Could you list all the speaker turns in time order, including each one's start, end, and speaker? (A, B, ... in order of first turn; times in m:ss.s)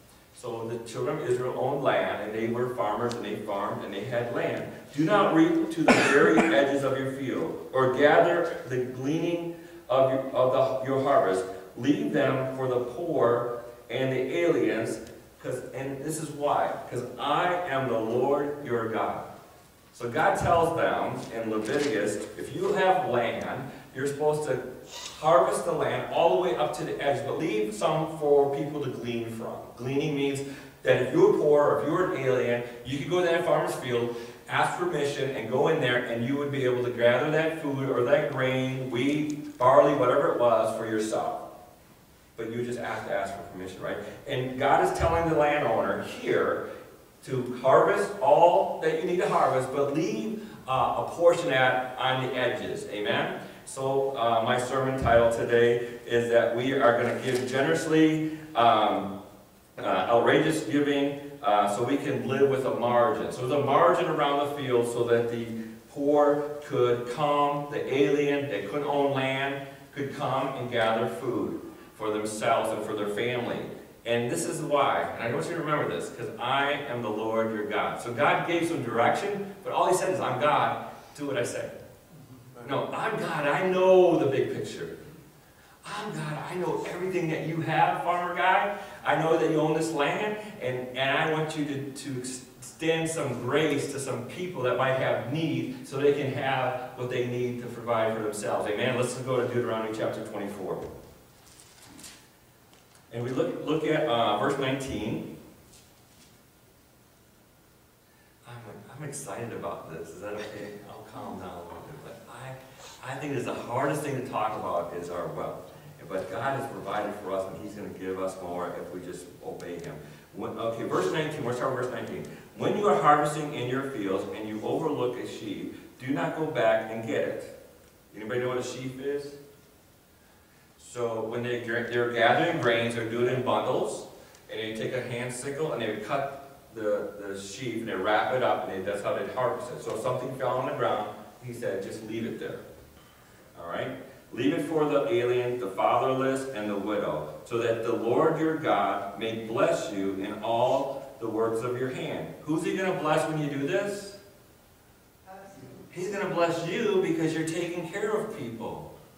0:00.3-0:19.2 A
0:19.9-0:41.4 A
0:42.4-0:46.6 A
0:47.2-0:59.1 A
0:59.8-1:21.7 A
1:22.6-1:24.9 A
1:25.8-1:40.9 A
1:43.1-1:45.3 A
1:48.4-2:07.5 A
2:08.1-2:09.4 A
2:10.8-2:22.6 A
2:23.5-2:34.2 A
2:35.9-2:38.9 A